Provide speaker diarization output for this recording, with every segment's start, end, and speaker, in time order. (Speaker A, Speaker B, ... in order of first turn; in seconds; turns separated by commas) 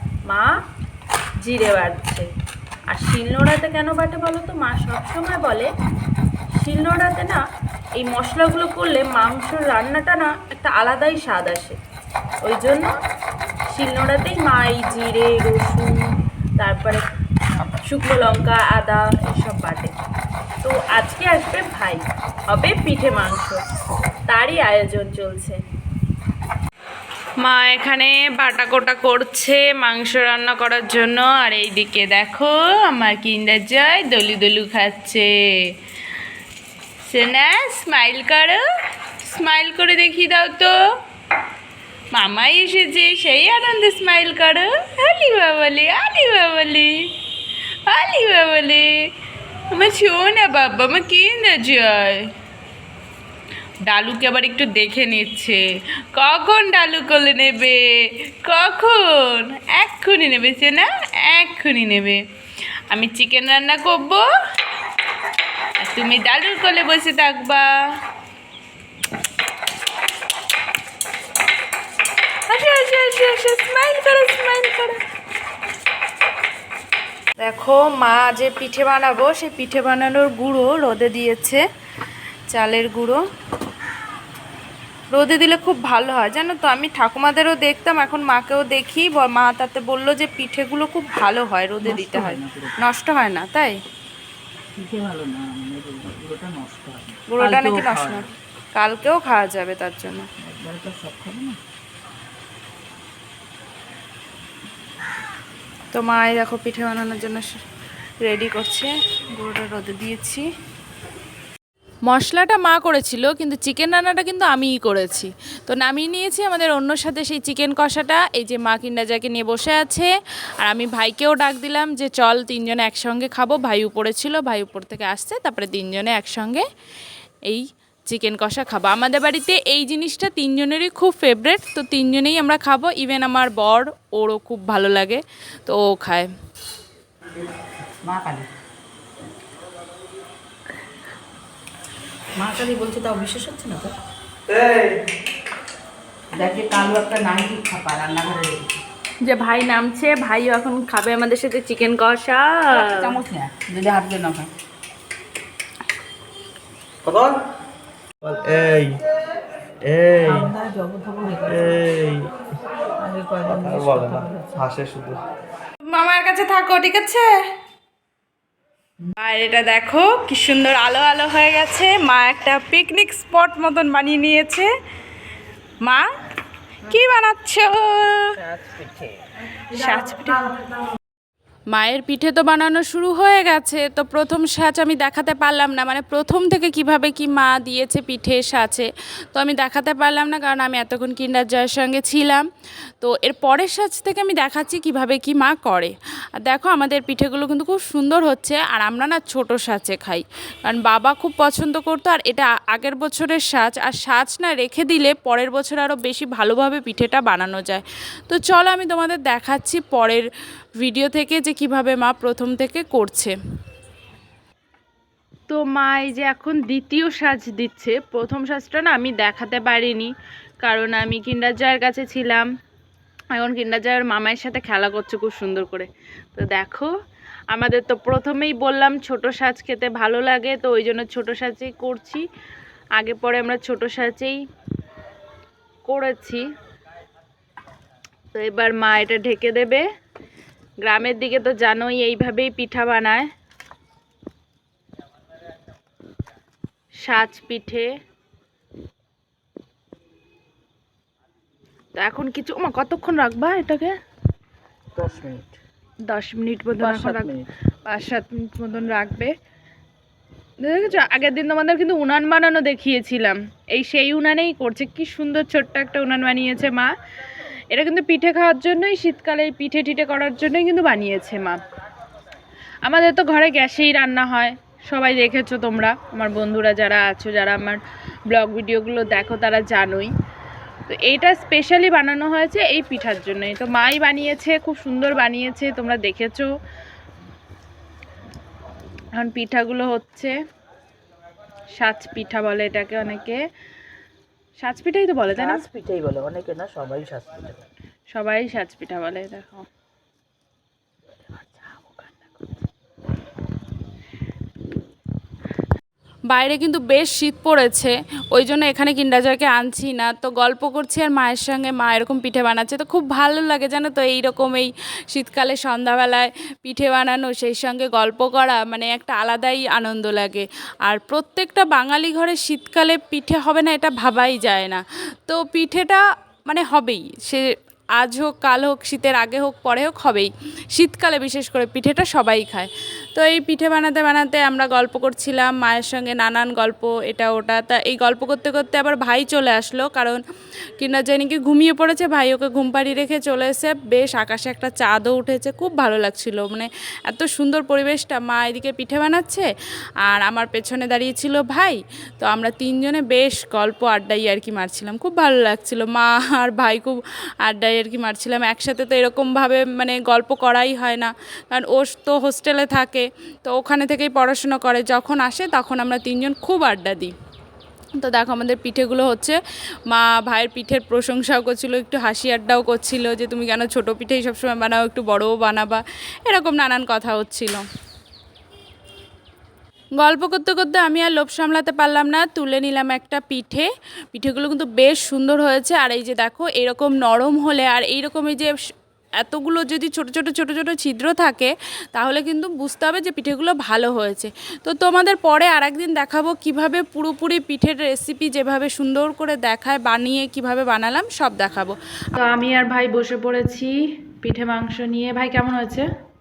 Speaker A: 0.3-0.5, Speaker A: 1.4-2.2, Speaker A: 2.9-5.7, Speaker A: 6.5-7.4, Speaker A: 8.0-11.8, Speaker A: 12.4-12.9, Speaker A: 13.7-16.0, Speaker A: 16.6-17.0, Speaker A: 17.8-19.9, Speaker A: 20.6-23.6, Speaker A: 24.3-25.6, Speaker A: 27.4-35.3, Speaker A: 37.1-38.6, Speaker A: 39.2-40.8, Speaker A: 42.1-47.1, Speaker A: 47.9-49.1, Speaker A: 49.7-52.3, Speaker A: 53.9-55.6, Speaker A: 56.1-62.2, Speaker A: 62.9-64.3, Speaker A: 65.8-67.8, Speaker A: 72.5-75.0, Speaker A: 77.4-81.6, Speaker A: 82.5-83.2, Speaker A: 85.1-93.8, Speaker B: 91.8-92.8, Speaker B: 94.8-98.2, Speaker A: 97.3-100.3, Speaker B: 100.4-101.6, Speaker A: 105.9-107.6, Speaker A: 108.2-110.5, Speaker A: 112.1-120.1, Speaker A: 120.6-126.6, Speaker A: 127.5-136.3, Speaker B: 138.0-138.5, Speaker B: 142.4-143.7, Speaker A: 142.4-143.8, Speaker B: 146.3-148.8, Speaker A: 149.2-153.1, Speaker B: 152.7-154.5, Speaker C: 157.0-157.4, Speaker C: 158.2-159.0, Speaker C: 159.8-160.5, Speaker B: 160.2-161.9, Speaker C: 161.5-162.3, Speaker B: 163.0-164.7, Speaker C: 163.5-165.2, Speaker A: 165.8-167.4, Speaker A: 169.1-174.7, Speaker A: 176.9-178.4, Speaker B: 178.6-178.9, Speaker A: 179.7-180.5, Speaker A: 181.7-192.4, Speaker A: 193.0-210.2, Speaker A: 210.8-213.3, Speaker A: 215.5-222.5, Speaker A: 223.3-226.9, Speaker A: 227.5-232.2, Speaker A: 233.0-234.4, Speaker A: 235.9-236.4, Speaker A: 238.3-239.8, Speaker A: 240.8-243.3, Speaker A: 247.0-247.9, Speaker A: 251.9-253.9, Speaker B: 254.9-255.6, Speaker A: 256.1-257.3, Speaker B: 256.8-257.5, Speaker A: 257.9-259.3, Speaker A: 260.6-266.9, Speaker A: 267.7-271.6, Speaker A: 272.8-280.1, Speaker A: 280.9-286.5, Speaker A: 289.2-290.3, Speaker A: 291.8-293.4, Speaker A: 294.6-295.6, Speaker B: 295.3-297.6, Speaker A: 298.1-299.6, Speaker B: 301.2-302.5, Speaker A: 306.3-327.4, Speaker A: 328.0-340.2, Speaker A: 340.8-349.5, Speaker A: 350.0-367.1, Speaker A: 368.0-377.6, Speaker A: 380.0-388.5, Speaker A: 389.2-405.9